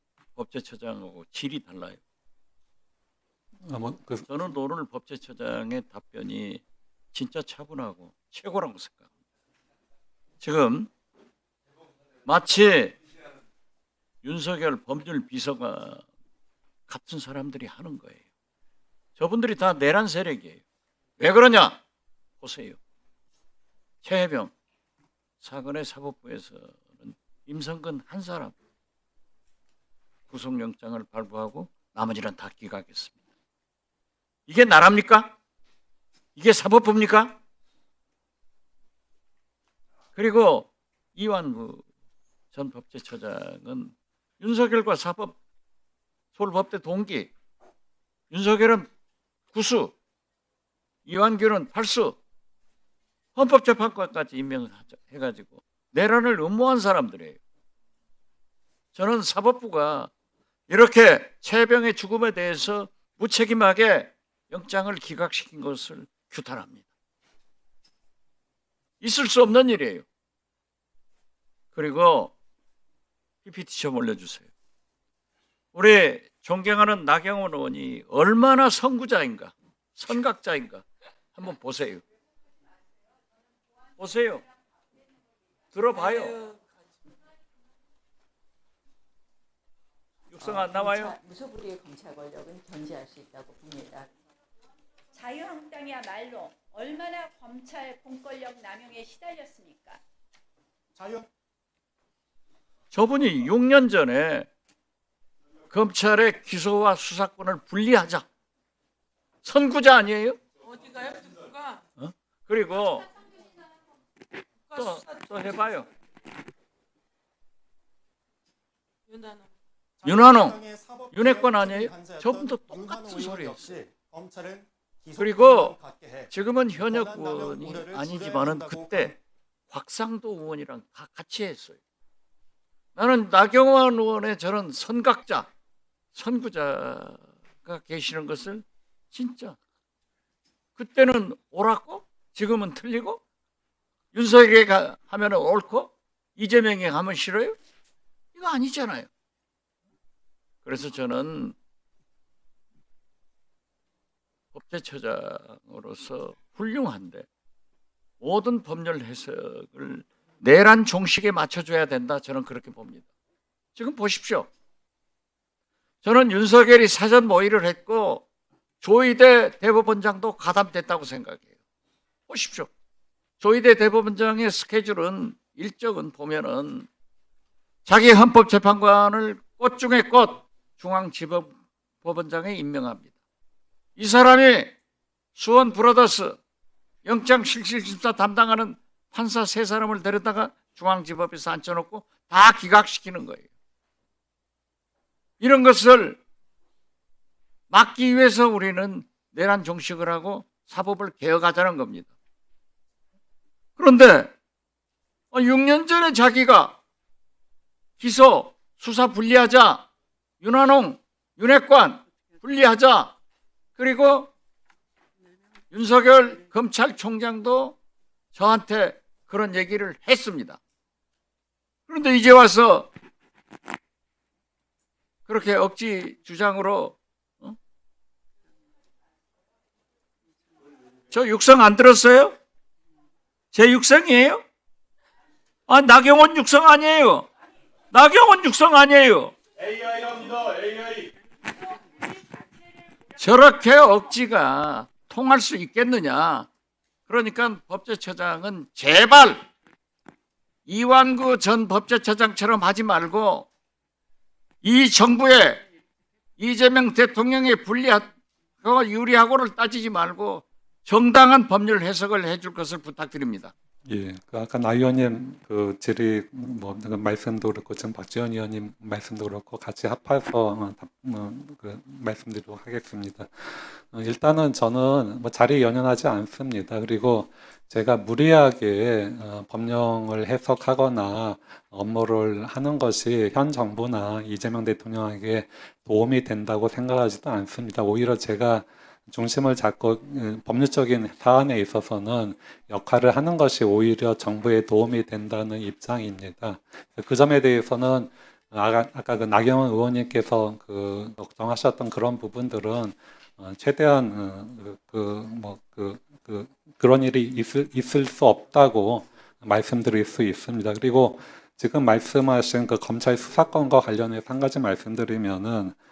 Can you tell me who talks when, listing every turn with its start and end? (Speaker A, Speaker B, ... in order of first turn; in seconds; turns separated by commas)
Speaker A: 0.3-2.0, Speaker B: 3.6-4.2, Speaker A: 4.2-6.6, Speaker A: 7.1-9.1, Speaker A: 10.4-10.9, Speaker A: 12.2-13.0, Speaker A: 14.2-16.0, Speaker A: 16.9-18.2, Speaker A: 19.1-20.6, Speaker A: 21.2-21.8, Speaker A: 22.4-22.8, Speaker A: 24.0-24.5, Speaker A: 25.4-28.5, Speaker A: 30.3-33.2, Speaker A: 34.5-35.4, Speaker A: 36.4-37.4, Speaker A: 40.1-41.8, Speaker A: 42.5-45.4, Speaker A: 46.3-47.3, Speaker A: 48.3-48.9, Speaker A: 49.5-49.9, Speaker A: 51.0-52.2, Speaker A: 53.3-57.4, Speaker A: 58.9-60.1, Speaker A: 60.7-66.8, Speaker A: 69.0-70.0, Speaker A: 71.7-72.3, Speaker A: 73.4-74.5, Speaker A: 75.7-82.0, Speaker A: 84.0-84.4, Speaker A: 85.7-86.5, Speaker C: 86.3-86.7, Speaker A: 90.3-91.2, Speaker D: 90.4-94.1, Speaker E: 95.1-100.0, Speaker F: 101.0-101.3, Speaker A: 102.9-104.5, Speaker A: 105.7-108.2, Speaker A: 109.4-110.4, Speaker C: 110.7-111.8, Speaker A: 112.0-113.1, Speaker A: 114.7-115.9, Speaker C: 119.1-119.5, Speaker F: 120.0-129.2, Speaker A: 120.0-120.6, Speaker A: 121.1-123.7, Speaker A: 125.2-125.8, Speaker A: 126.3-129.2, Speaker A: 129.7-131.8, Speaker A: 132.9-135.5, Speaker A: 136.1-139.6, Speaker A: 140.8-143.2, Speaker A: 144.1-147.6, Speaker A: 148.3-149.1, Speaker A: 150.6-151.6, Speaker A: 154.5-157.2, Speaker A: 158.2-163.1, Speaker A: 163.8-164.5, Speaker A: 166.0-168.2, Speaker A: 168.8-171.5, Speaker A: 172.3-172.7, Speaker A: 173.4-176.9, Speaker A: 177.8-183.1, Speaker A: 183.9-184.7, Speaker A: 185.3-186.4, Speaker A: 187.0-193.5, Speaker A: 195.4-196.2, Speaker A: 197.7-202.1, Speaker A: 203.8-204.3, Speaker A: 205.3-206.8, Speaker A: 208.0-209.9, Speaker A: 210.4-213.1, Speaker A: 213.8-214.3, Speaker A: 215.7-217.8, Speaker A: 218.3-220.6, Speaker A: 221.9-222.9, Speaker A: 225.3-227.6, Speaker A: 231.1-232.3, Speaker A: 233.5-234.4, Speaker A: 235.7-237.3, Speaker A: 237.9-241.0, Speaker A: 243.2-246.5, Speaker A: 247.1-249.4, Speaker A: 250.7-253.5, Speaker A: 254.6-255.6, Speaker A: 256.4-258.1, Speaker A: 258.6-263.5, Speaker B: 263.9-315.8